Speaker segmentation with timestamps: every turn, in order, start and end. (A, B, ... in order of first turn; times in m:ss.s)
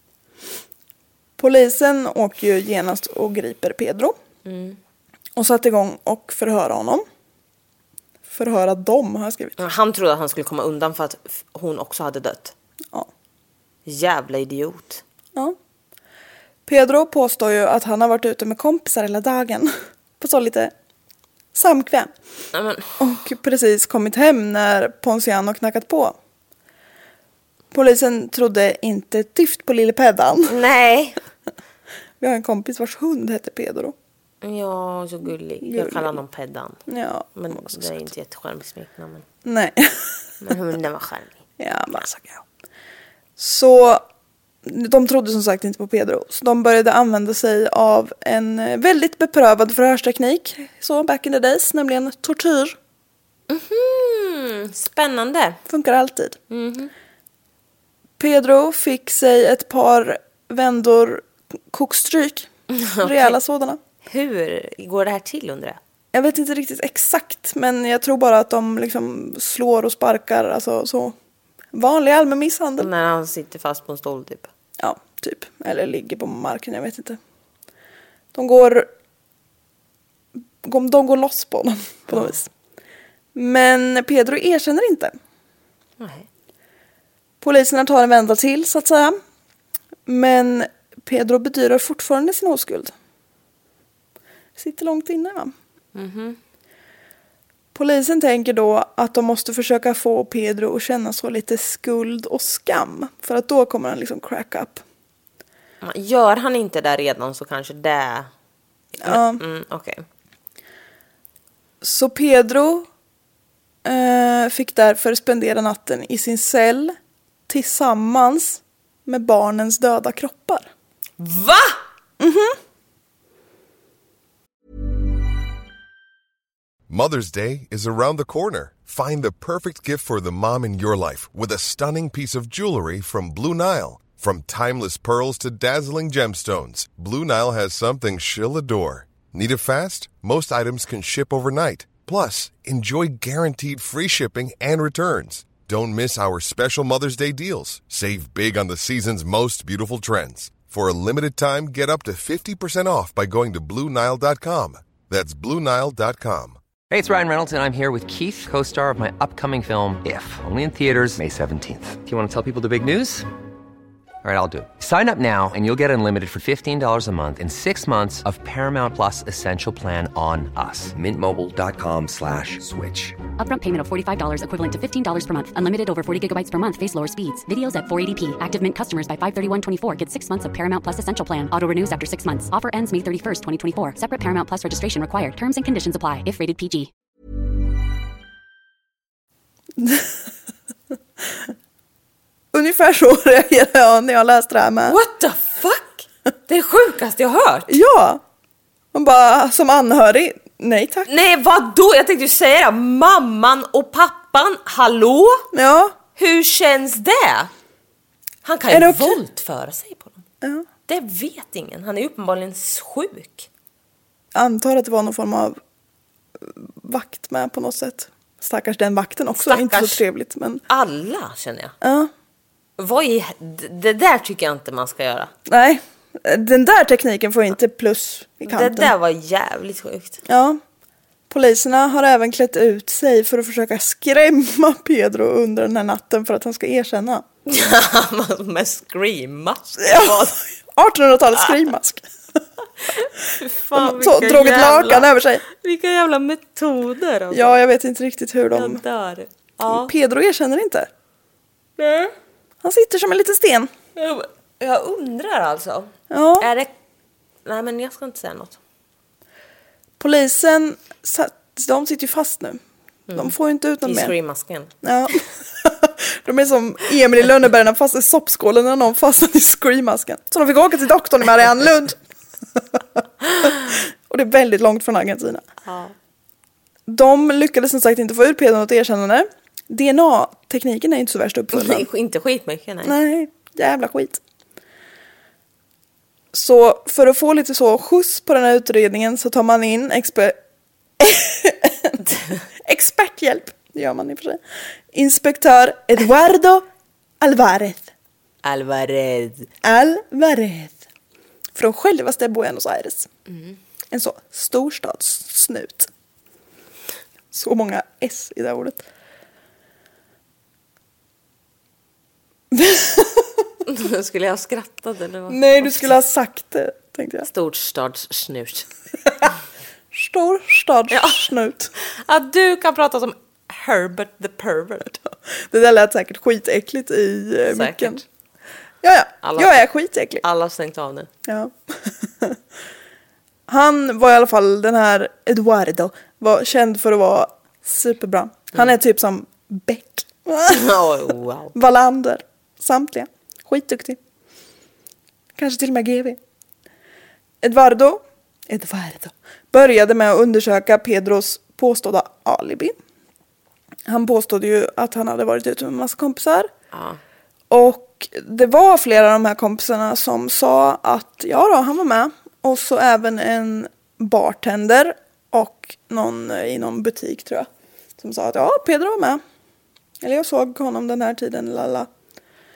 0:01.4-0:04.2 A
0:04.4-0:04.8 B
0:05.4-0:07.0 A
0:08.3-0:09.6 A
0:09.6-0:12.5 B
0:13.8-0:15.0 B
0:16.6-0:20.7 A
0:21.5-0:22.1 A
0:22.5-0:22.8 B
0:23.0-0:26.2 A
0:27.7-0:30.6 A
0:30.4-0:31.2 B
0:32.2-0:33.9 A
0:34.4-0:36.8 B
0:35.6-0:36.2 A
0:36.9-0:38.1 A
0:37.3-0:39.2 B
0:39.4-0:40.1 A
0:40.4-0:41.4 B
0:41.6-0:42.4 A
0:43.4-0:44.0 A
0:44.6-0:52.8 A
0:53.5-0:55.6 B
0:55.7-0:56.4 A
0:56.5-0:56.9 B
0:58.2-1:02.5 A
1:02.7-1:03.4 B
1:03.0-1:03.8 A
1:04.0-1:05.8 B
1:06.1-1:11.2 A
1:11.7-1:12.9 A
1:12.8-1:14.5 B
1:14.8-1:17.2 A
1:18.3-1:18.9 A
1:20.6-1:22.5 A
1:22.1-1:22.4 B
1:23.3-1:25.1 A
1:26.0-1:26.3 B
1:27.4-1:29.2 A
1:30.0-1:32.9 A
1:34.6-1:35.5 A
1:35.9-1:36.4 B
1:37.7-1:44.8 A
1:45.8-1:48.3 B
1:48.9-1:50.0 B
1:49.0-1:49.4 A
1:51.8-1:52.9 A
1:53.8-1:57.0 A
1:57.5-2:00.7 A
2:01.2-2:01.8 B
2:02.2-2:02.6 A
2:06.9-2:36.6 C
2:36.9-2:43.3 D
2:44.2-2:53.2 D
2:53.4-3:06.9 E
3:09.8-3:10.2 A
3:12.5-3:15.0 A
3:14.8-3:17.8 B
3:17.7-3:18.2 A
3:18.9-3:21.1 A
3:21.1-3:25.5 B
3:25.5-3:26.0 A
3:26.2-3:27.5 B
3:28.4-3:30.2 B
3:28.7-3:29.2 A
3:30.9-3:33.5 B
3:34.3-3:35.6 A
3:36.4-3:40.6 A
3:39.3-3:40.0 B
3:40.7-3:41.7 B
3:41.8-3:42.1 A
3:42.8-3:45.3 B
3:45.4-3:48.9 A
3:48.4-3:50.2 B
3:50.2-3:50.6 A
3:51.3-3:57.2 A
3:57.4-4:00.4 B
3:59.8-4:02.0 A
4:03.0-4:07.5 B
4:03.7-4:05.4 A
4:07.3-4:08.8 A
4:08.5-4:09.9 B
4:09.7-4:10.9 A
4:11.8-4:12.1 B
4:12.6-4:13.7 A
4:14.0-4:16.7 B
4:16.1-4:16.5 A
4:17.4-4:18.6 B
4:20.0-4:22.6 A
4:23.1-4:24.7 B
4:23.1-4:24.1 A
4:24.8-4:32.0 A
4:33.4-4:35.5 A
4:35.6-4:35.9 B
4:36.9-4:41.8 A
4:41.5-4:43.0 B
4:42.8-4:44.2 A
4:46.3-4:50.4 A
4:51.0-4:52.0 A
4:52.6-4:54.4 A
4:54.9-4:56.6 A
4:57.2-4:57.9 A
4:58.4-4:59.5 B
4:59.6-5:00.8 A
5:01.5-5:03.1 A
5:03.3-5:03.5 B
5:03.9-5:05.9 A
5:07.3-5:08.8 A
5:12.5-5:13.4 A
5:13.6-5:15.9 B
5:15.3-5:17.3 A
5:17.2-5:18.7 B
5:19.9-5:21.7 A
5:20.9-5:21.3 B
5:21.8-5:25.0 B
5:25.5-5:28.0 A
5:27.4-5:28.0 B
5:28.8-5:30.2 A
5:29.2-5:29.6 B
5:30.2-5:31.1 B
5:31.2-5:32.4 A
5:33.5-5:40.8 A
5:40.5-5:41.5 B
5:41.5-5:44.0 A
5:45.4-5:46.2 A
5:47.4-5:52.7 A
5:53.8-5:56.5 A
5:56.7-5:57.0 B
5:57.5-6:09.2 A
6:10.0-6:11.9 A